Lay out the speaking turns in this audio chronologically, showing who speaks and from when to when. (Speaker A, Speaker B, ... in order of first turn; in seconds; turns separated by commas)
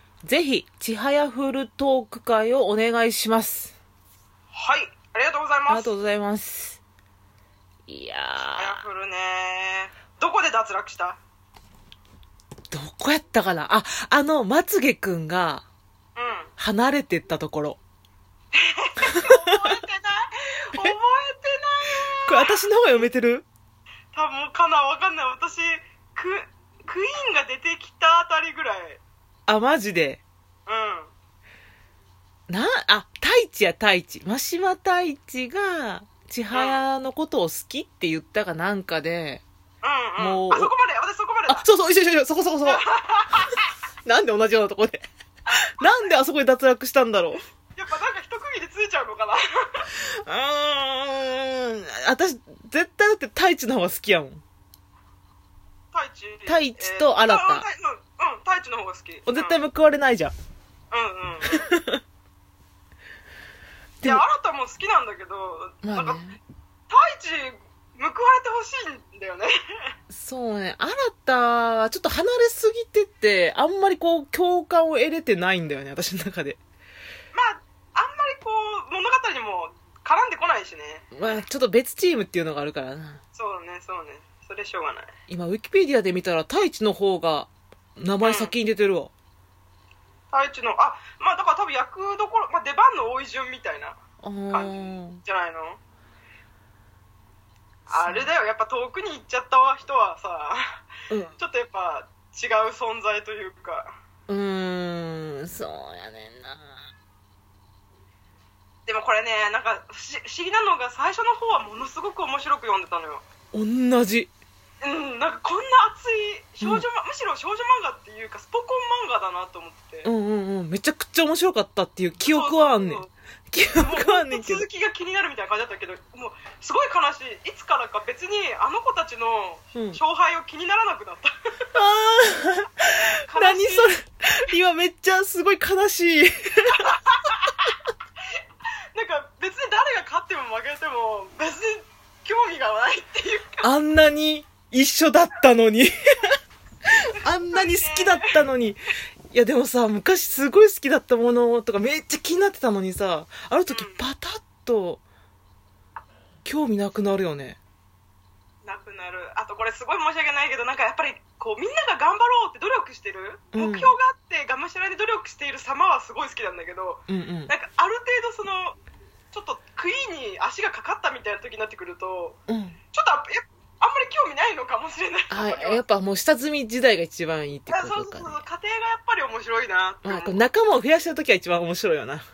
Speaker A: 0.2-3.7, Speaker B: 4.5-5.9, Speaker A: 5.7-6.8, Speaker A: 7.9-8.8, Speaker B: 8.6-11.2, Speaker A: 12.7-15.7, Speaker B: 16.1-16.5, Speaker A: 16.6-17.8, Speaker B: 18.5-22.5, Speaker A: 19.2-19.7, Speaker A: 22.2-23.4, Speaker B: 24.1-29.0, Speaker A: 29.5-30.2, Speaker B: 30.7-31.1, Speaker A: 32.5-39.4, Speaker B: 36.5-36.8, Speaker B: 39.8-41.6, Speaker A: 40.2-40.7, Speaker A: 41.5-42.8, Speaker B: 42.7-43.6, Speaker A: 44.0-45.0, Speaker A: 45.8-47.4, Speaker B: 47.7-49.9, Speaker A: 49.9-54.4, Speaker B: 55.9-59.6, Speaker A: 56.5-57.7, Speaker A: 59.3-60.3, Speaker B: 60.9-61.6, Speaker A: 61.5-62.0, Speaker B: 64.0-66.2, Speaker A: 65.8-66.4, Speaker B: 66.9-69.9, Speaker A: 70.1-76.6, Speaker B: 77.3-81.1, Speaker A: 81.1-83.2, Speaker B: 83.3-85.1, Speaker A: 85.3-89.1, Speaker B: 88.2-88.5, Speaker B: 90.3-94.0, Speaker A: 94.2-95.2, Speaker B: 94.5-95.8, Speaker B: 97.9-100.8, Speaker A: 97.9-98.3, Speaker A: 101.1-101.3, Speaker B: 101.4-103.9, Speaker A: 104.3-106.8, Speaker B: 108.9-113.2, Speaker A: 113.5-114.3, Speaker B: 114.8-120.1, Speaker A: 120.0-124.7, Speaker B: 122.2-123.1, Speaker B: 123.8-131.6, Speaker A: 129.7-130.0, Speaker A: 131.7-136.8, Speaker B: 133.3-133.9, Speaker B: 136.8-137.6, Speaker B: 138.9-143.6, Speaker A: 143.6-145.9, Speaker A: 147.2-155.0, Speaker B: 147.2-148.3, Speaker B: 153.7-154.0, Speaker A: 156.4-157.6, Speaker B: 158.6-168.8, Speaker A: 163.5-163.9, Speaker A: 167.1-167.5, Speaker B: 169.3-172.4, Speaker A: 172.5-172.8, Speaker B: 172.9-175.8, Speaker A: 175.3-178.4, Speaker B: 177.7-180.4, Speaker A: 180.0-182.2